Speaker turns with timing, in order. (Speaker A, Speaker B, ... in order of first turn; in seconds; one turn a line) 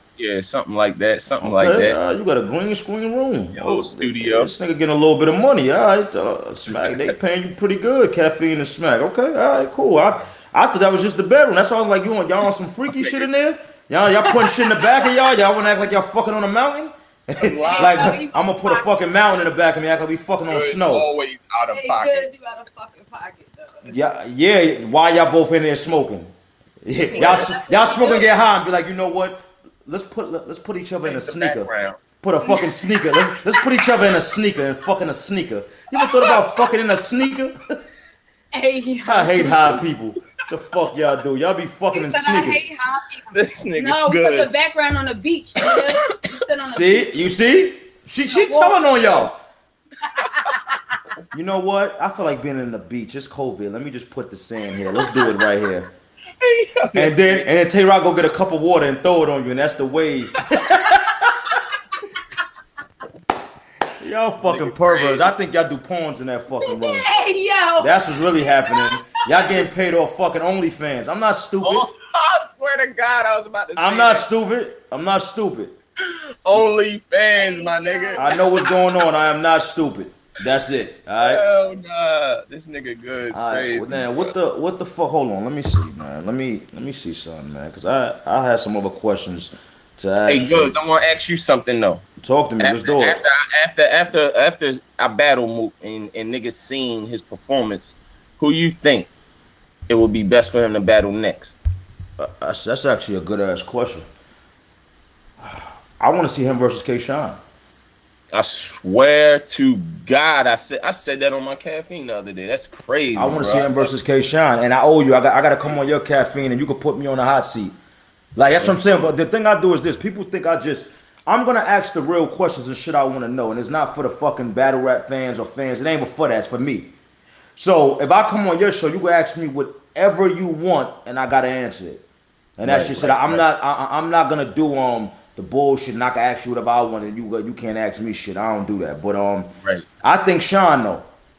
Speaker A: 0.2-2.0
Speaker B: 1.4-21.1
Speaker A: 3.5-4.5
Speaker A: 6.8-7.1
Speaker A: 12.9-13.3
Speaker C: 14.5-15.1
Speaker A: 17.4-18.2
Speaker C: 17.4-18.9
Speaker A: 20.5-22.3
Speaker C: 21.7-23.9
Speaker B: 23.9-26.3
Speaker B: 26.8-37.5
Speaker C: 27.1-28.3
Speaker A: 27.2-27.4
Speaker A: 31.0-32.0
Speaker C: 32.4-33.6
Speaker C: 36.0-36.4
Speaker C: 38.5-39.8
Speaker B: 39.0-42.6
Speaker C: 41.9-47.4
Speaker A: 43.3-44.5
Speaker B: 46.7-49.3
Speaker C: 48.3-49.3
Speaker C: 50.1-50.6
Speaker B: 51.3-55.9
Speaker A: 56.4-57.5
Speaker B: 56.9-61.5
Speaker B: 64.0-67.0
Speaker A: 64.4-65.3
Speaker C: 66.6-68.9
Speaker B: 67.8-71.9
Speaker A: 71.6-74.2
Speaker B: 73.8-75.7
Speaker A: 76.0-78.3
Speaker C: 77.3-78.6
Speaker B: 78.2-81.4
Speaker A: 81.2-84.3
Speaker B: 83.3-90.7
Speaker A: 90.3-92.0
Speaker B: 92.2-93.2
Speaker A: 92.6-99.1
Speaker A: 99.9-101.6
Speaker B: 102.2-104.0
Speaker B: 105.4-107.4
Speaker A: 108.3-113.9
Speaker B: 113.1-117.7
Speaker B: 118.3-126.9
Speaker A: 118.6-119.1
Speaker B: 127.5-132.0
Speaker B: 132.6-139.5
Speaker A: 132.6-133.4
Speaker B: 140.0-141.1